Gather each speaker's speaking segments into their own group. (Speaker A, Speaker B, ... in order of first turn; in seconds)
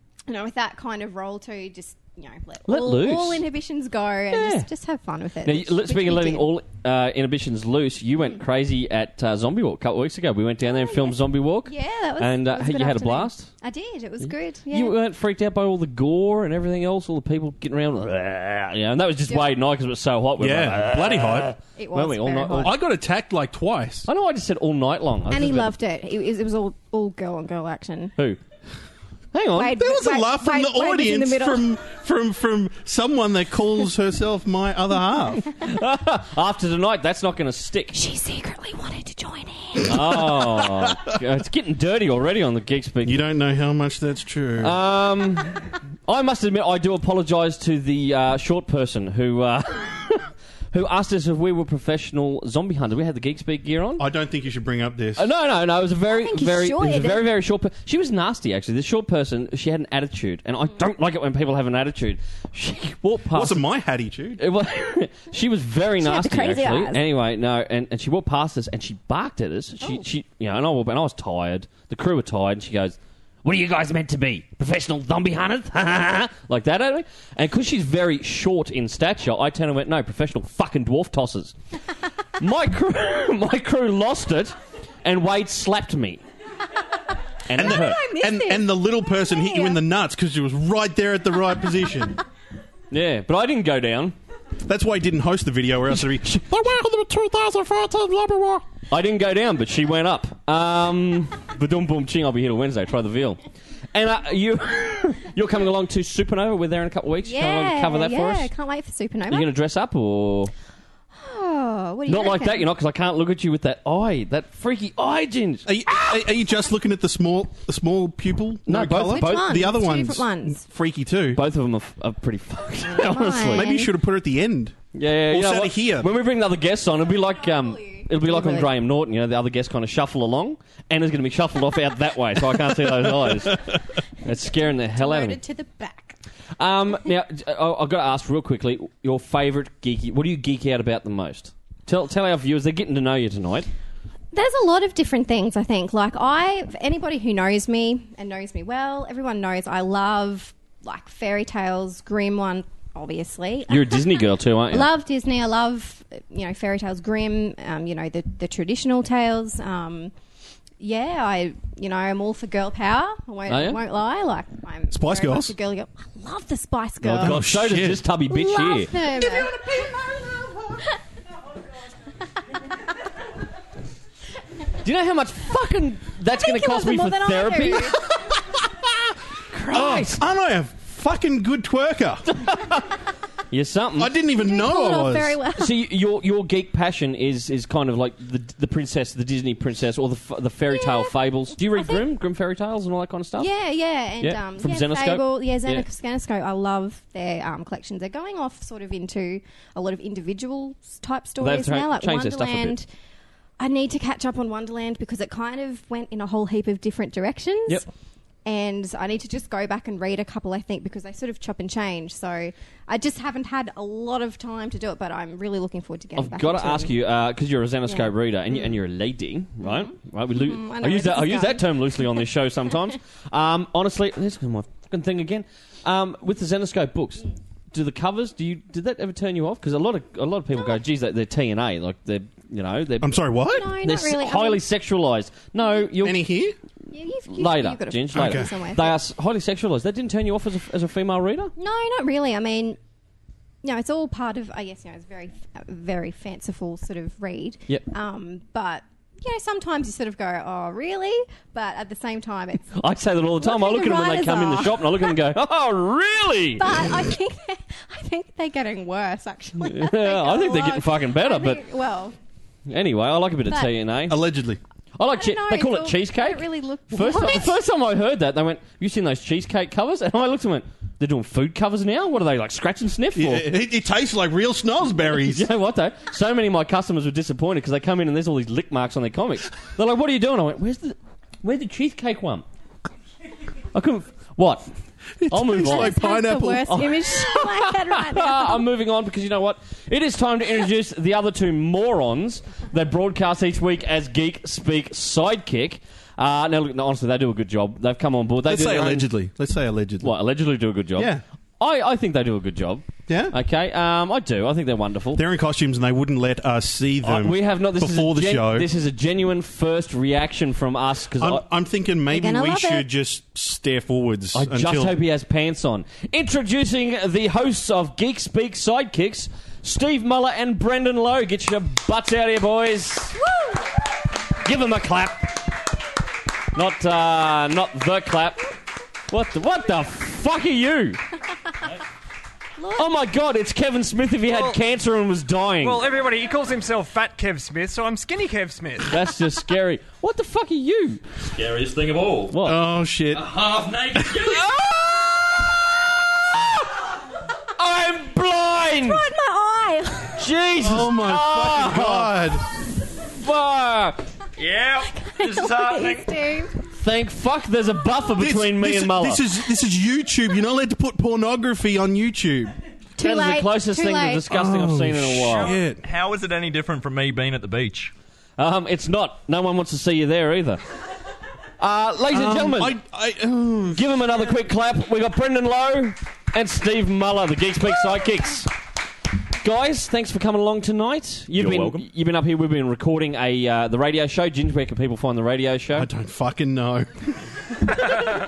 Speaker A: 0.3-6.5, 10.6-14.9, 19.3-19.5, 21.8-22.8, 25.3-28.1, 29.6-31.7, 37.9-40.0, 56.1-57.2, 66.0-67.0, 87.6-89.8, 107.2-109.5, 111.1-112.7, 119.0-120.6, 122.8-123.9, 127.0-128.7, 134.5-136.2, 144.3-160.1, 160.8-167.5, 168.3-169.9, 176.3-178.1, 184.3-185.8, 190.7-192.1, 193.4-202.8, 203.6-207.8, 208.4-217.0, 217.9-218.7, 219.6-222.3, 233.5-234.6, 236.9-239.0, 241.6-242.8, 243.6-252.7, 253.4-255.2, 256.6-262.1, 265.1-267.6, 285.6-288.6, 312.1-312.9, 348.8-350.2, 354.9-356.6, 363.0-364.2
Speaker B: 2.7-3.4, 4.3-4.7, 5.4-13.5, 14.7-22.7, 24.1-25.7, 29.3-29.8, 35.5-38.0, 39.8-43.2, 44.6-54.0, 55.2-63.6, 64.4-81.5, 82.4-86.2, 87.5-88.0, 92.9-94.2, 98.9-103.4, 103.9-108.5, 109.3-110.5, 112.1-116.2, 118.7-119.6, 121.3-123.7, 124.9-135.4, 136.6-143.7, 153.7-154.9, 163.5-163.8, 167.0-168.9, 174.8-177.9, 179.5-180.2, 182.3-182.8, 183.5-184.1, 185.6-193.5, 194.2-195.8, 201.4-202.8, 216.2-233.2, 233.8-236.2, 237.3-241.5, 252.7-256.9, 259.6-261.6, 262.7-264.2, 265.0-273.5, 275.3-282.4, 283.7-284.7, 285.3-286.0, 286.6-299.1, 300.0-305.2, 307.0-311.4, 314.3-323.2, 324.4-325.5, 326.5-328.5, 329.1-331.0, 332.7-335.8, 338.9-341.0, 342.3-342.6, 344.2-345.3, 347.6-349.0, 350.1-352.3, 352.9-354.0, 356.7-359.2, 363.0-365.5, 368.4-370.6, 371.6-372.8, 373.7-378.5, 379.4-385.9
Speaker C: 20.4-21.5, 22.6-24.1, 29.7-35.4, 39.8-41.1, 43.0-44.8, 54.0-55.2, 63.3-64.4, 87.5-92.2, 94.7-98.6, 115.7-121.4, 123.5-124.8, 125.3-126.1, 132.8-133.5, 164.9-165.5, 167.0-168.0, 169.4-170.5, 179.7-182.2, 184.0-185.4, 233.0-233.8, 236.0-236.6, 238.1-238.5, 264.1-264.6, 273.1-275.5, 285.2-286.8, 298.4-300.1, 300.9-301.2, 303.1-303.3, 305.1-308.7, 311.2-315.0, 342.4-343.3, 343.9-344.3, 350.6-352.4, 358.2-362.5, 364.3-365.8, 372.1-374.4, 385.7-387.1
Speaker D: 334.3-334.6, 335.6-339.0
Speaker E: 341.3-342.3, 343.1-344.4, 354.4-356.2, 365.4-367.9, 381.3-381.9